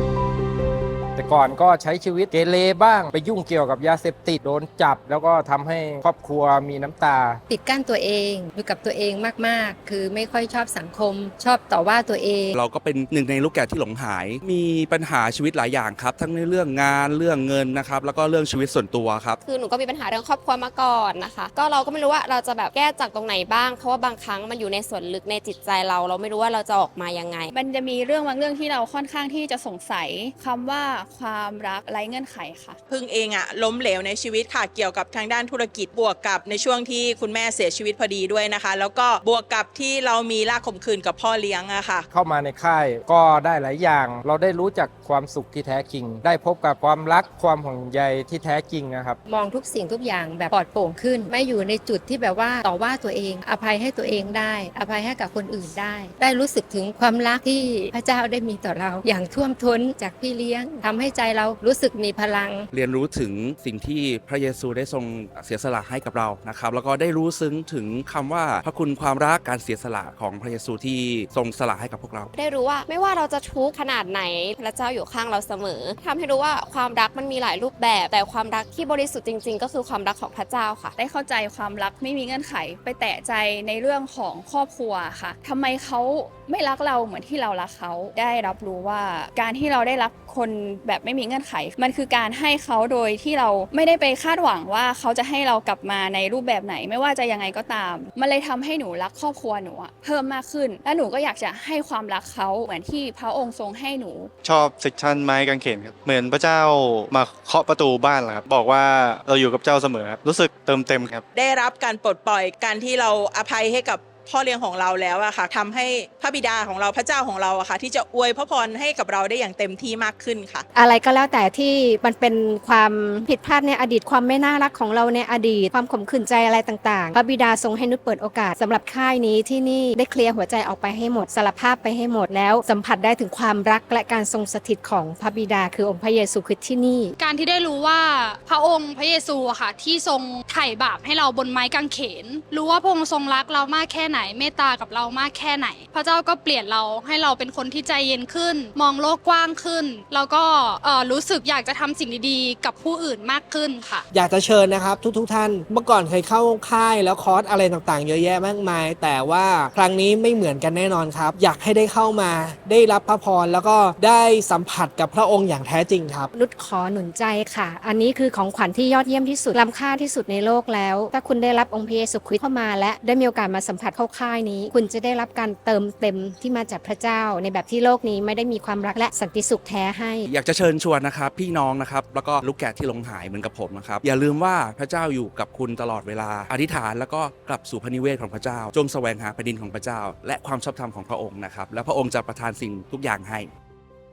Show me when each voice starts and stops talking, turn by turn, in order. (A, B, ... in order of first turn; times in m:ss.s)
0:01.2-0:07.4 A
0:07.5-0:12.6 B
0:12.5-0:19.4 C
0:19.4-0:27.5 D
0:27.5-0:32.8 E
0:32.9-0:42.1 F
0:42.1-0:49.2 A
0:49.3-1:02.7 B
1:02.7-1:12.3 C
1:12.4-1:20.9 D
1:21.0-1:44.3 E
1:44.4-1:51.2 G
1:51.4-2:00.7 F
2:00.8-2:17.2 H
2:17.2-2:34.1 I
2:34.1-2:46.3 J
2:46.4-3:00.3 H
3:00.3-3:13.5 C